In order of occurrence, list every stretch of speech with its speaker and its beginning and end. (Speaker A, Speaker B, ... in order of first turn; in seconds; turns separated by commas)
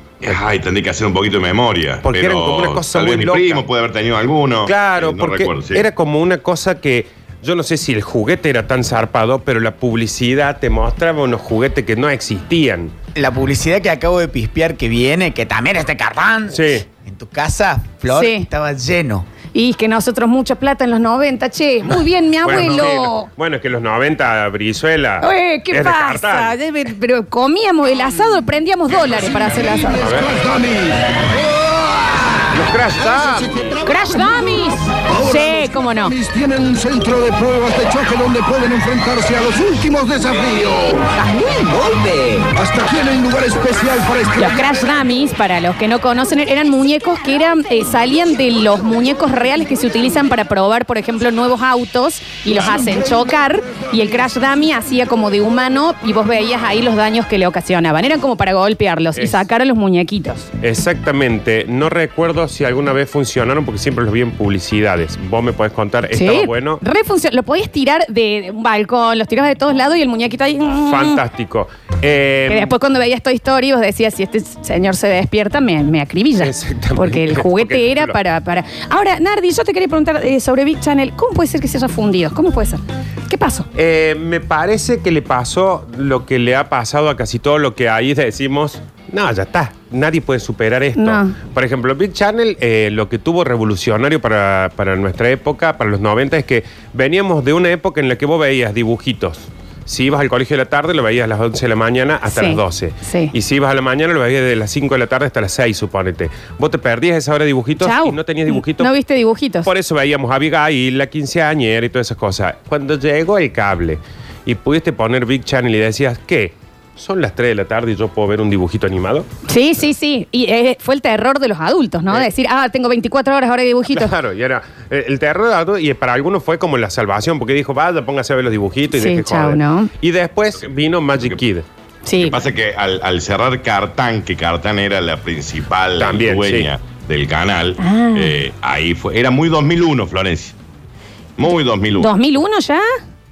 Speaker A: 0.2-5.9, Speaker B: 2.0-3.6, Speaker B: 4.7-12.9, Speaker C: 13.2-19.3, Speaker B: 16.5-16.9, Speaker D: 18.1-18.5, Speaker D: 19.5-23.3, Speaker B: 22.4-26.6, Speaker D: 25.2-30.1, Speaker E: 29.0-41.2, Speaker B: 30.0-30.3, Speaker B: 32.5-33.8, Speaker D: 33.9-36.1, Speaker E: 42.5-44.8, Speaker D: 44.4-60.5, Speaker E: 52.7-53.8, Speaker B: 59.1-59.4, Speaker B: 60.6-66.8, Speaker D: 66.1-71.2, Speaker B: 70.9-72.7, Speaker D: 72.5-83.7, Speaker B: 76.4-78.2, Speaker B: 83.8-108.9, Speaker D: 91.0-91.3, Speaker D: 102.3-103.3, Speaker D: 107.8-109.7, Speaker B: 109.7-119.3, Speaker D: 119.5-124.1, Speaker B: 123.9-131.7, Speaker D: 128.9-129.9, Speaker D: 132.1-132.4, Speaker A: 132.2-140.6, Speaker B: 136.0-136.7, Speaker D: 137.8-138.3, Speaker A: 141.4-142.1, Speaker D: 142.0-142.9